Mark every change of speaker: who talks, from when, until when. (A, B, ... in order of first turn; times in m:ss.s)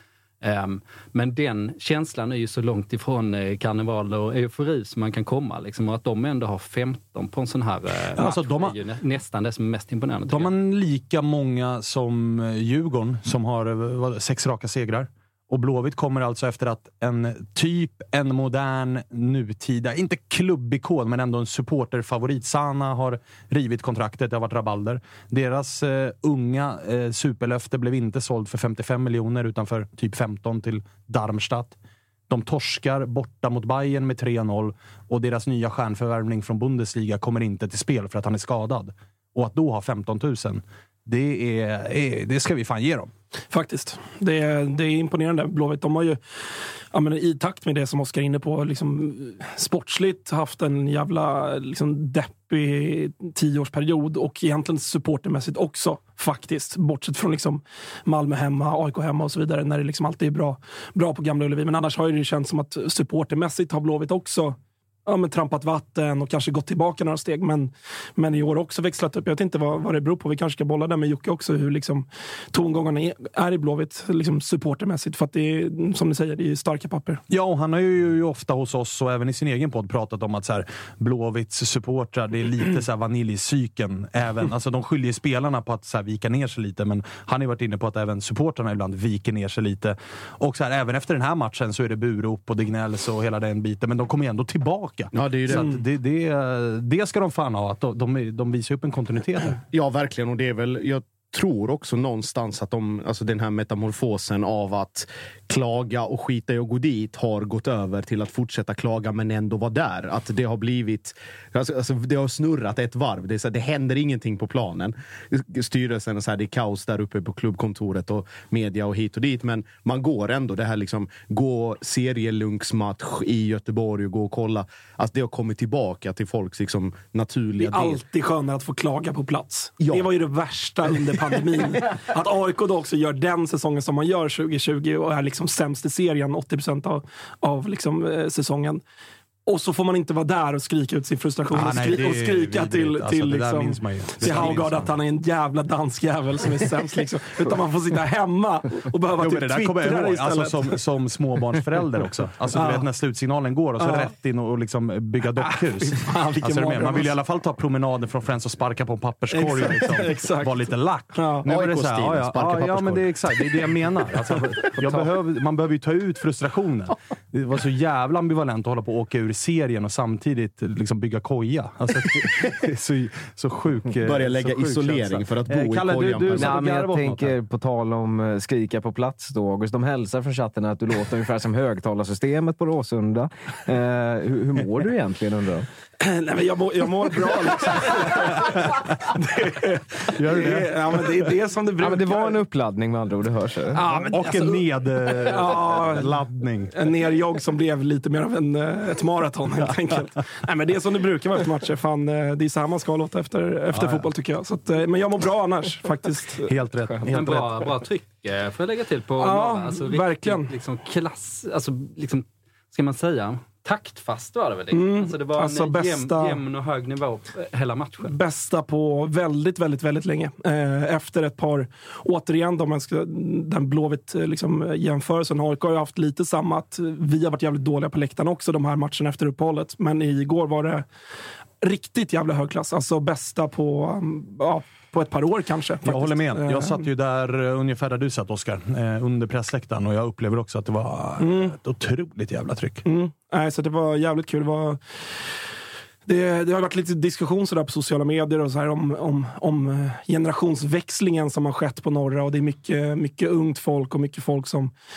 0:00.4-0:10.5 A
0:08.2-0:08.8 B
0:10.3-0:31.8 B
0:32.3-0:43.1 B
0:43.5-0:46.2 C
0:46.9-1:17.2 C
1:17.3-1:39.6 B
1:35.1-1:35.7 D
1:35.5-1:35.8 C
1:39.7-2:08.0 D
2:07.6-2:18.8 C
2:09.8-2:10.1 D
2:11.1-2:11.4 D
2:19.5-2:30.8 C
2:21.5-2:24.9 B
2:29.2-2:57.3 B
2:32.5-2:32.9 C
2:33.8-2:34.1 C
2:35.3-2:37.2 C
2:39.3-2:41.5 C
2:41.5-2:43.2 D
2:44.8-2:45.1 C
2:54.0-2:56.6 D
2:56.3-3:05.7 E
3:06.0-3:12.4 C
3:10.1-3:11.0 B
3:11.8-3:14.1 E
3:13.7-3:26.5 C
3:14.1-3:16.8 B
3:23.7-3:24.1 B
3:26.5-3:27.7 B
3:27.1-3:38.2 A
3:29.2-3:30.5 C
3:34.7-3:36.4 C
3:38.0-3:50.9 C
3:51.6-3:56.9 C
3:55.8-4:02.8 B
4:01.2-4:01.6 C
4:02.8-4:04.8 C
4:06.1-4:14.7 C